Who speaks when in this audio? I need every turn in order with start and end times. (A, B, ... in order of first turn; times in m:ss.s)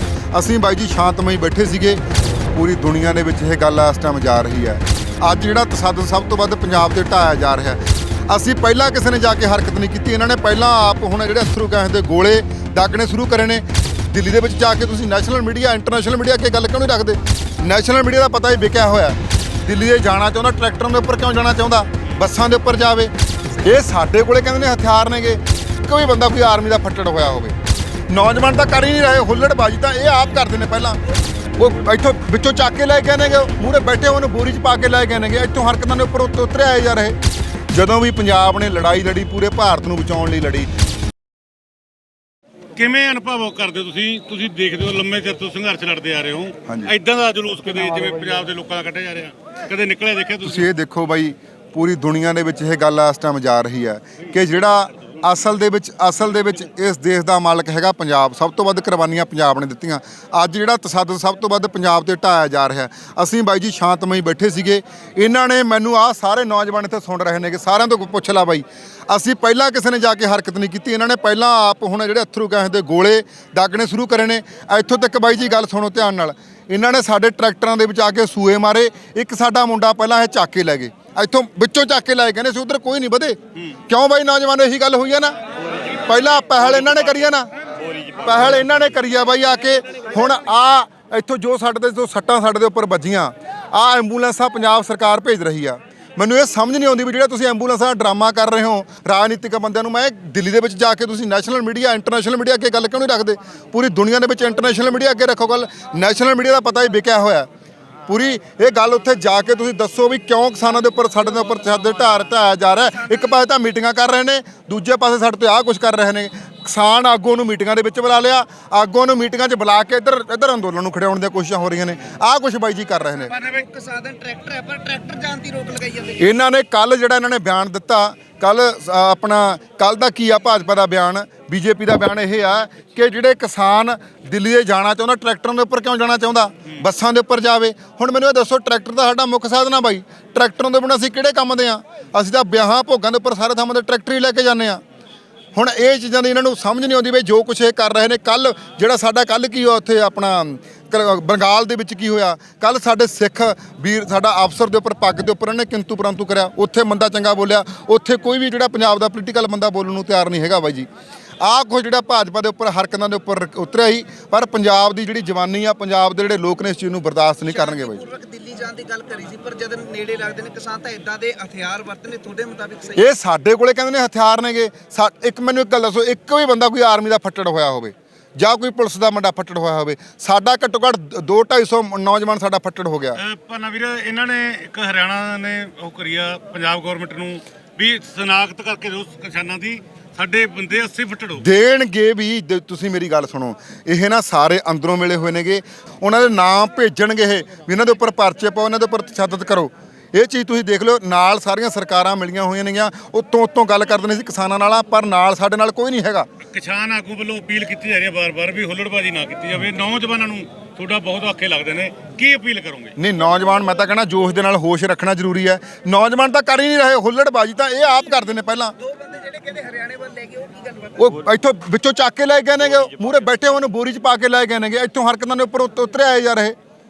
0:00.3-0:02.0 A
0:02.5-0:27.6 A
0:28.1-0:31.0 A
0:31.5-0:37.2 A
0:37.7-0:40.7 A
0:42.8-0:50.7 B
0:46.7-0:46.9 A
0:50.4-1:25.3 A
1:26.0-1:27.5 A
1:28.2-1:47.5 A
1:48.0-2:03.4 A
1:53.0-1:53.3 C
2:03.2-2:06.2 C
2:06.2-2:24.8 A
2:25.5-2:40.9 A
2:41.4-2:48.0 A
2:47.4-2:53.1 C
2:53.0-3:03.2 A
3:03.2-3:11.4 B
3:11.3-3:26.3 A
3:26.5-3:32.9 B
3:33.0-3:38.7 A
3:38.8-3:41.2 C
3:41.0-3:46.5 A